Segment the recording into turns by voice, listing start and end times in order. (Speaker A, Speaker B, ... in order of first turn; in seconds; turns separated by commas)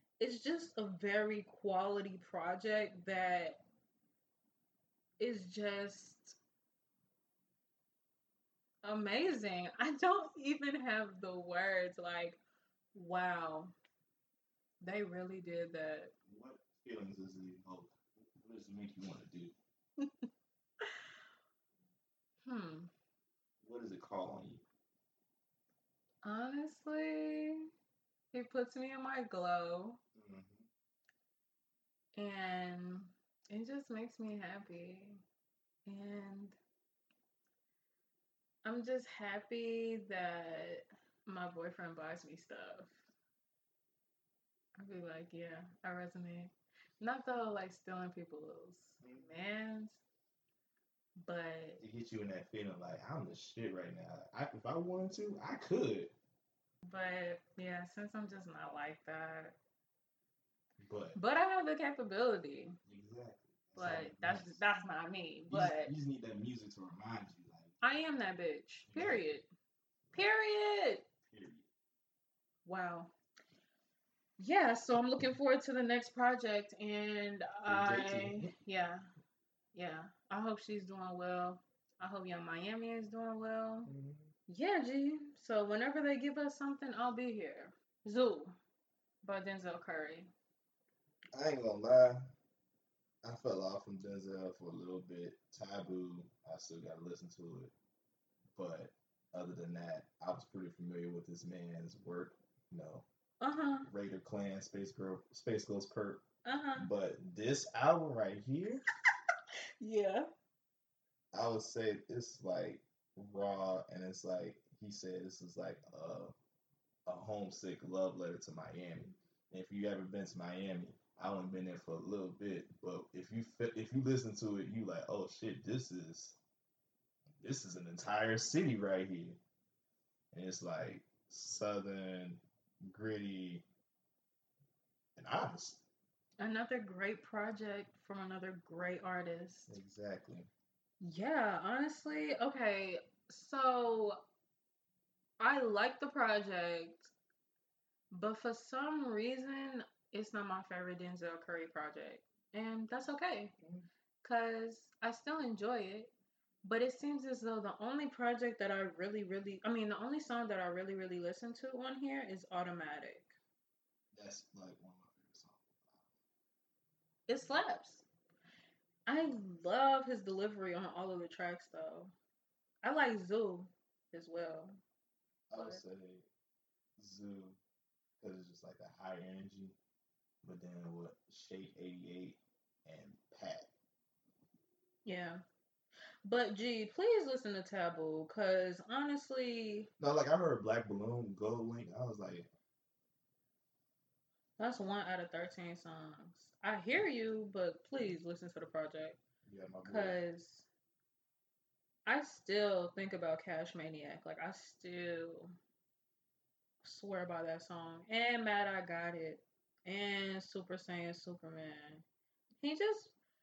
Speaker A: 0.2-3.6, Speaker A: 5.2-6.4, Speaker A: 8.8-12.4, Speaker A: 12.9-13.7, Speaker A: 14.8-16.1, Speaker B: 16.2-19.5, Speaker A: 22.4-22.9, Speaker B: 23.6-24.6, Speaker A: 26.2-27.6, Speaker A: 28.3-30.0, Speaker B: 30.1-30.7, Speaker A: 32.1-35.2, Speaker A: 35.9-36.6, Speaker A: 38.6-43.0, Speaker A: 44.8-50.0, Speaker B: 49.0-49.3, Speaker A: 51.2-51.8, Speaker B: 51.8-56.1, Speaker A: 56.8-59.5, Speaker B: 60.8-61.2, Speaker A: 61.1-62.8, Speaker B: 62.8-64.6, Speaker A: 63.8-65.9, Speaker B: 65.5-67.7, Speaker A: 67.8-69.5, Speaker B: 68.9-69.2, Speaker A: 70.1-71.0, Speaker B: 71.2-71.7, Speaker A: 72.6-73.1, Speaker A: 74.4-79.1, Speaker B: 77.6-78.5, Speaker A: 79.7-83.9, Speaker B: 83.8-84.3, Speaker A: 84.5-88.5, Speaker A: 89.2-90.3, Speaker B: 91.3-92.3, Speaker B: 93.2-97.7, Speaker B: 98.5-103.0, Speaker A: 103.4-103.9, Speaker B: 103.8-106.2, Speaker A: 106.4-106.9, Speaker B: 106.8-108.8, Speaker A: 109.8-110.3, Speaker B: 111.3-116.3, Speaker B: 117.0-126.4, Speaker B: 127.4-129.4, Speaker B: 130.3-133.6, Speaker B: 135.2-135.8, Speaker A: 136.4-139.8, Speaker B: 139.7-140.5, Speaker A: 141.0-144.2, Speaker A: 145.4-147.1, Speaker A: 148.1-153.5, Speaker B: 153.6-153.8, Speaker A: 154.2-156.1, Speaker A: 156.6-163.3, Speaker B: 164.1-166.1, Speaker A: 167.3-168.0, Speaker A: 169.1-172.1, Speaker A: 172.8-174.8, Speaker B: 175.5-176.2, Speaker A: 175.5-175.8, Speaker B: 177.0-177.6, Speaker B: 178.2-179.8, Speaker B: 180.4-183.7, Speaker A: 185.0-185.4, Speaker A: 186.2-189.9, Speaker B: 190.0-192.5, Speaker A: 194.6-199.2, Speaker B: 199.4-200.2, Speaker A: 199.8-200.7, Speaker A: 202.1-205.5, Speaker A: 206.8-212.0, Speaker A: 212.6-213.1